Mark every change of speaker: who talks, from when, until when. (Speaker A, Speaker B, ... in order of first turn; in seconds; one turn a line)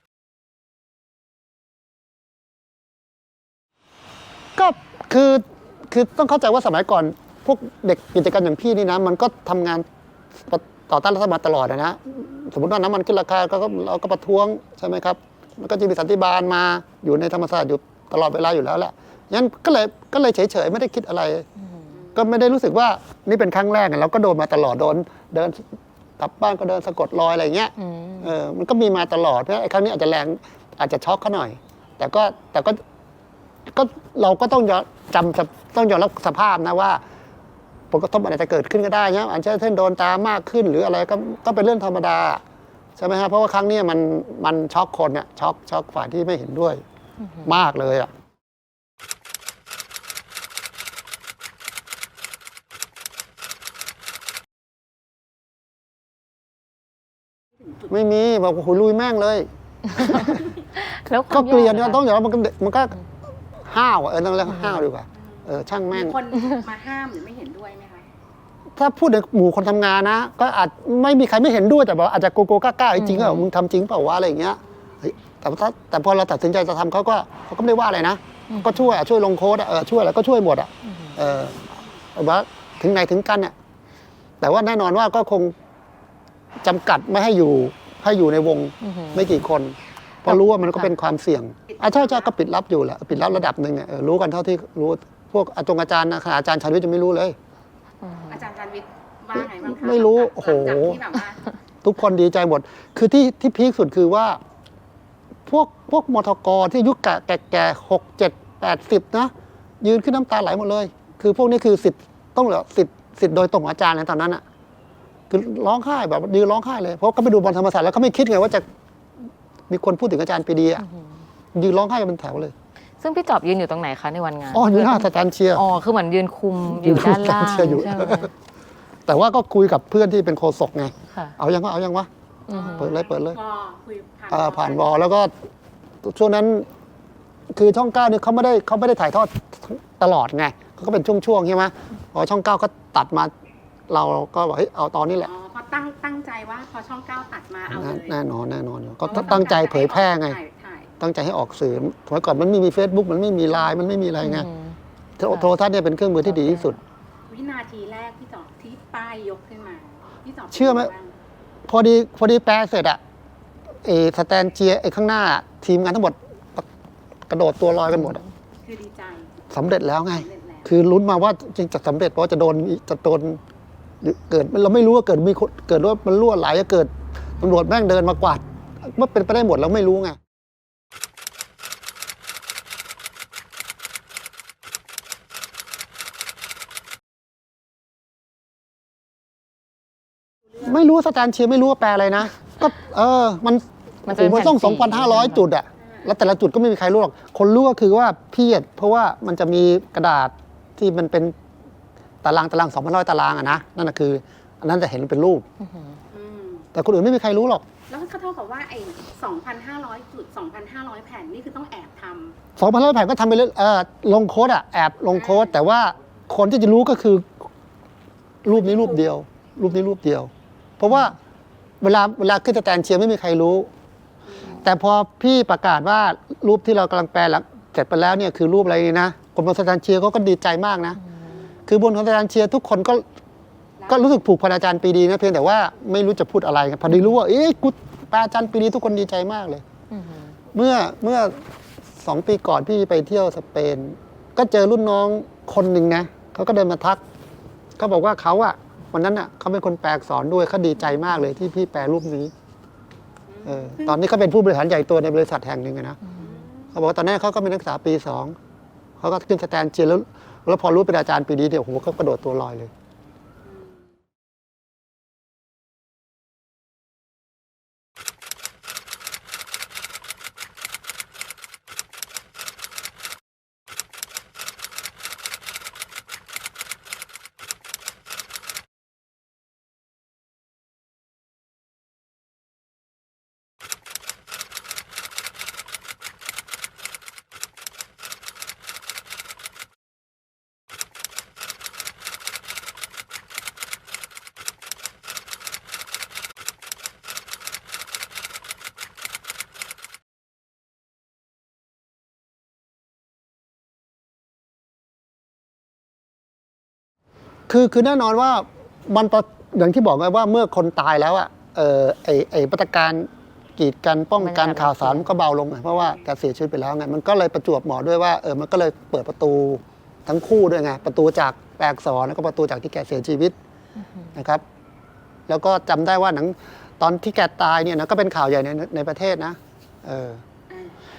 Speaker A: 4.5-21.5
Speaker B: 21.6-21.9
Speaker A: 22.1-25.6
Speaker A: 26.2-32.8
Speaker B: 27.8-28.3
Speaker A: 33.7-37.0
Speaker A: 37.9-42.4
Speaker A: 43.0-46.8
Speaker B: 47.2-47.5
Speaker A: 47.4-48.1
Speaker A: 57.9-60.5
Speaker B: 59.9-62.0
Speaker A: 61.3-63.0
Speaker A: 63.5-66.2
Speaker C: 65.1-68.0
Speaker A: 68.8-83.5
Speaker B: 73.0-73.5
Speaker B: 78.5-78.8
Speaker B: 80.8-81.2
Speaker A: 84.4-85.5
Speaker A: 86.6-97.3
Speaker B: 88.8-89.2
Speaker B: 90.3-90.9
Speaker C: 91.7-92.2
Speaker B: 98.0-98.4
Speaker C: 98.3-101.4
Speaker A: 99.3-101.1
Speaker A: 101.8-104.4
Speaker A: 105.5-114.4
Speaker A: 115.3-118.6
Speaker A: 119.7-120.8
Speaker A: 121.5-122.5
Speaker B: 123.0-128.3
Speaker A: 124.5-125.6
Speaker A: 126.7-128.3
Speaker A: 129.1-132.1
Speaker B: 132.5-132.9
Speaker C: 132.5-134.9
Speaker A: 132.7-133.4
Speaker A: 134.3-135.3
Speaker A: 136.0-136.7
Speaker A: 137.5-143.3
Speaker A: 143.9-145.3
Speaker C: 145.2-148.2
Speaker A: 147.7-150.4
Speaker C: 149.0-150.9
Speaker A: 151.0-154.5
Speaker B: 154.2-154.8
Speaker A: 155.2-156.8
Speaker B: 156.4-156.7
Speaker C: 157.3-161.1
Speaker A: 160.5-160.9
Speaker A: 161.7-163.0
Speaker A: 163.8-166.7
Speaker A: 167.3-168.2
Speaker C: 168.6-169.4
Speaker A: 169.5-173.4
Speaker C: 170.1-170.7
Speaker A: 174.0-180.2
Speaker A: 190.6-201.3
Speaker B: 194.1-195.4
Speaker C: 195.8-196.1
Speaker A: 202.2-205.4
Speaker B: 205.6-206.0
Speaker C: 206.1-206.7
Speaker A: 206.7-207.7
Speaker C: 207.9-212.4
Speaker A: 212.6-217.5
Speaker C: 215.1-215.5
Speaker A: 218.4-221.2
Speaker C: 218.5-219.1
Speaker A: 221.8-223.7
Speaker C: 224.3-224.5
Speaker A: 224.6-231.0
Speaker A: 231.7-233.0
Speaker A: 233.9-239.6
Speaker B: 239.9-240.3
Speaker A: 240.5-241.3
Speaker A: 241.9-247.0
Speaker A: 247.8-252.3
Speaker C: 253.3-254.0
Speaker A: 253.4-256.0
Speaker C: 256.1-256.7
Speaker A: 256.7-258.4
Speaker A: 259.0-262.7
Speaker C: 263.4-263.9
Speaker A: 307.5-323.4
Speaker B: 314.2-315.1
Speaker A: 324.1-324.4
Speaker A: 325.3-330.2
Speaker C: 330.5-330.7